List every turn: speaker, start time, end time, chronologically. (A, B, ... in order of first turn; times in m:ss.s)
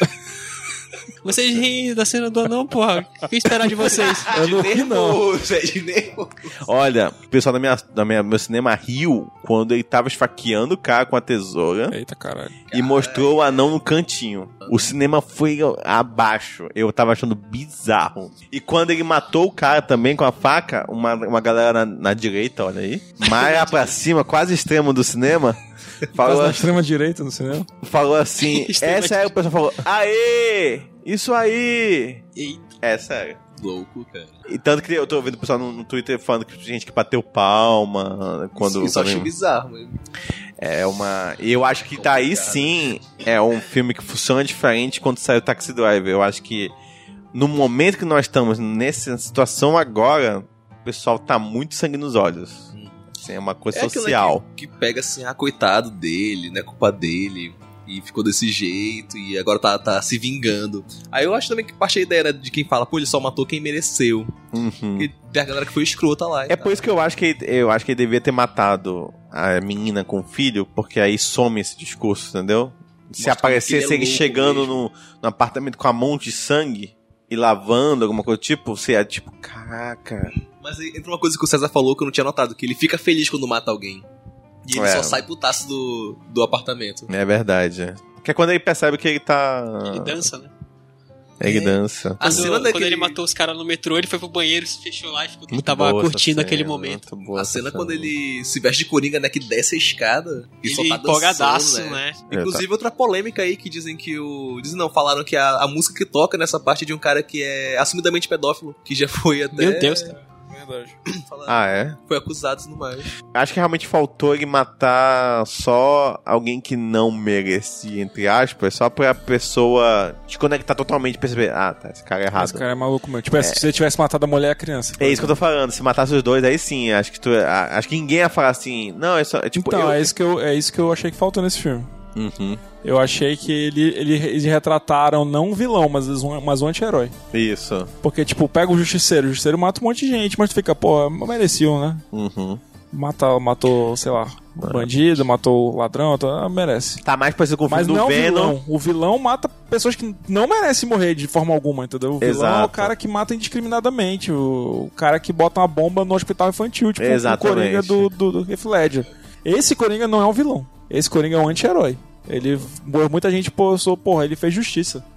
0:01.2-0:04.4 A
0:04.2-0:06.6 B
0:04.3-0:05.2 C
0:06.6-0:12.0 D
0:11.9-0:12.6 C
0:12.7-0:13.7 B
0:12.7-0:25.6 D
0:14.6-0:14.9 B
0:23.2-0:23.9 A
0:26.1-0:26.7 D
0:26.2-0:27.7 C
0:27.8-0:32.2 D
0:28.4-0:29.3 A
0:32.3-0:32.6 A
0:32.8-0:33.4 D
0:33.6-0:34.4 B
0:34.5-0:39.3 D
0:38.6-0:40.0 B
0:40.6-0:46.7 D
0:41.9-0:42.9 B
0:47.3-0:54.4 D
0:52.7-0:53.0 B
0:53.7-1:04.4 B
1:04.5-1:05.1 D
1:05.0-1:06.8 B
1:06.5-1:20.3 D
1:13.2-1:14.7 B
1:20.3-1:24.0 B
1:24.6-1:27.1 B
1:24.7-1:25.2 D
1:27.1-1:30.3 D
1:29.8-1:30.5 A
1:31.4-1:32.5 D
1:31.4-1:37.0 A
1:32.2-1:33.2 B
1:35.5-1:38.1 D
1:37.3-1:50.1 B
1:40.6-1:42.2 A
1:42.3-1:42.6 D
1:49.5-1:50.1 A
1:50.2-1:51.0 C
1:51.2-1:53.1 B
1:51.5-1:52.0 D
1:53.3-2:02.6 D
2:02.3-2:05.4 C
2:03.4-2:03.6 D
2:05.0-2:10.1 D
2:09.5-2:11.9 C
2:12.1-2:12.6 D
2:12.8-2:17.1 C
2:17.3-2:17.9 D
2:18.0-2:22.0 C
2:22.1-2:22.6 D
2:22.9-2:27.0 C
2:24.6-2:24.9 D
2:27.0-2:28.6 D
2:27.7-2:45.0 C
2:32.2-2:32.9 D
2:37.0-2:38.1 D